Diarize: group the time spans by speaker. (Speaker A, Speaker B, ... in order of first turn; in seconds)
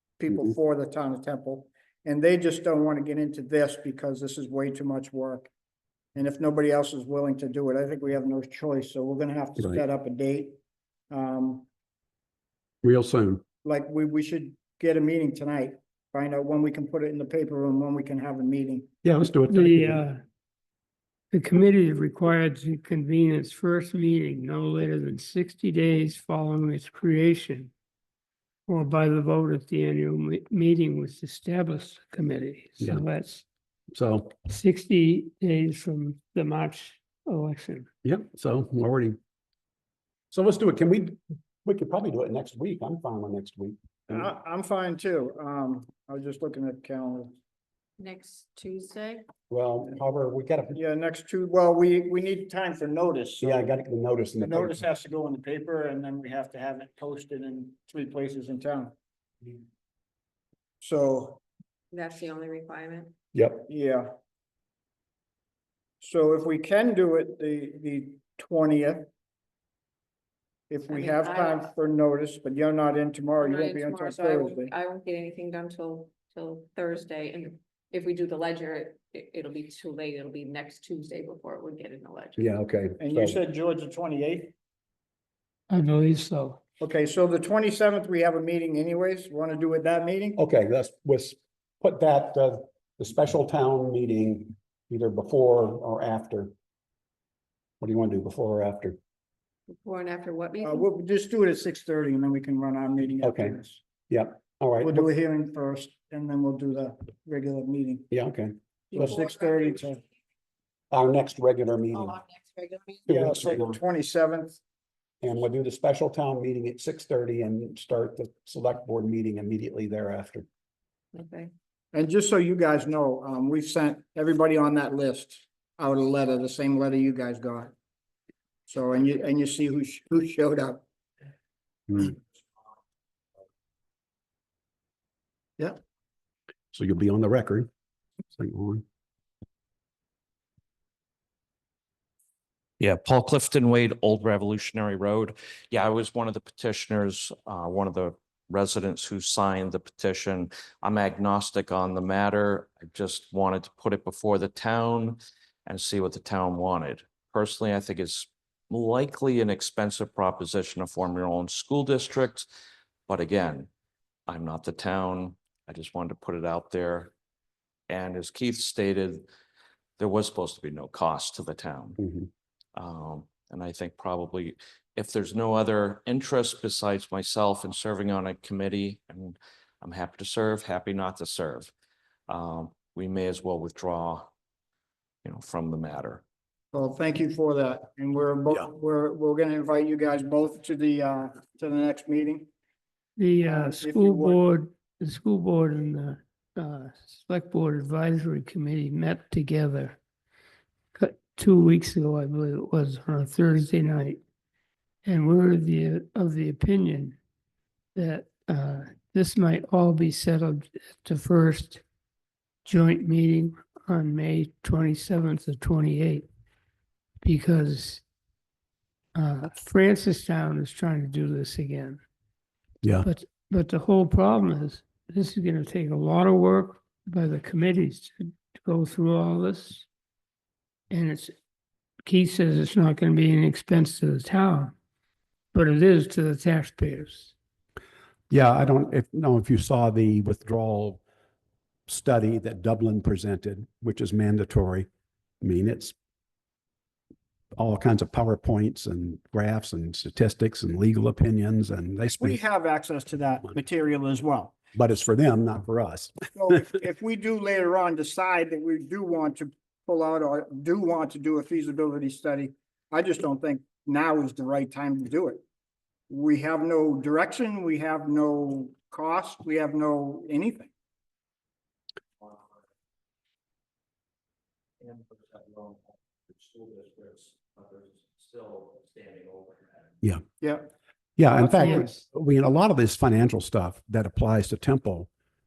Speaker A: 0.2-5.5, 6.2-10.6, 11.1-11.7, 13.6-18.9, 44.1-47.3, 50.7-53.7, 54.4-58.9, 60.8-61.4, 63.7-64.1, 66.0-69.1, 70.7-74.7, 83.0-84.5, 86.8-90.4, 100.6-103.8, 104.8-108.1, 108.9-110.0, 113.1-114.6, 121.9-127.7, 128.7-130.8, 186.7-192.5, 193.4-194.4, 252.2-254.6, 256.3-265.4, 266.1-270.7, 280.4-280.7
Speaker B: 12.8-13.4, 19.0-20.0, 33.9-34.4, 38.0-39.2, 40.3-44.3, 49.5-50.8, 53.4-54.8, 63.3-63.7, 82.4-83.4, 90.4-96.5, 97.8-99.0, 103.2-103.5, 104.1-105.1, 108.1-109.2, 110.9-112.2, 113.1-113.8, 115.2-120.5, 131.9-132.1, 136.7-137.7, 138.3-138.8, 172.0-172.3, 238.3-241.0, 241.9-244.9, 245.4-245.9, 247.6-252.4, 254.7-256.1, 281.2-285.1
Speaker C: 19.5-20.2, 21.3-27.7, 28.7-33.4, 34.4-37.9, 85.7-86.6, 193.2-200.0, 200.9-204.2, 205.0-207.2, 207.9-211.8, 212.7-216.3, 217.2-218.0, 219.2-222.0, 223.0-229.9, 230.9-231.3, 232.0-234.7, 235.5-237.3
Speaker D: 48.0-49.2, 61.9-63.1, 70.9-71.7, 73.4-82.4, 99.7-100.8, 112.0-113.1, 121.1-121.5
Speaker E: 142.8-162.5, 163.1-163.7, 164.3-167.1, 167.9-169.2, 170.0-172.0, 172.8-181.7, 182.3-184.3, 185.2-186.2, 274.8-279.9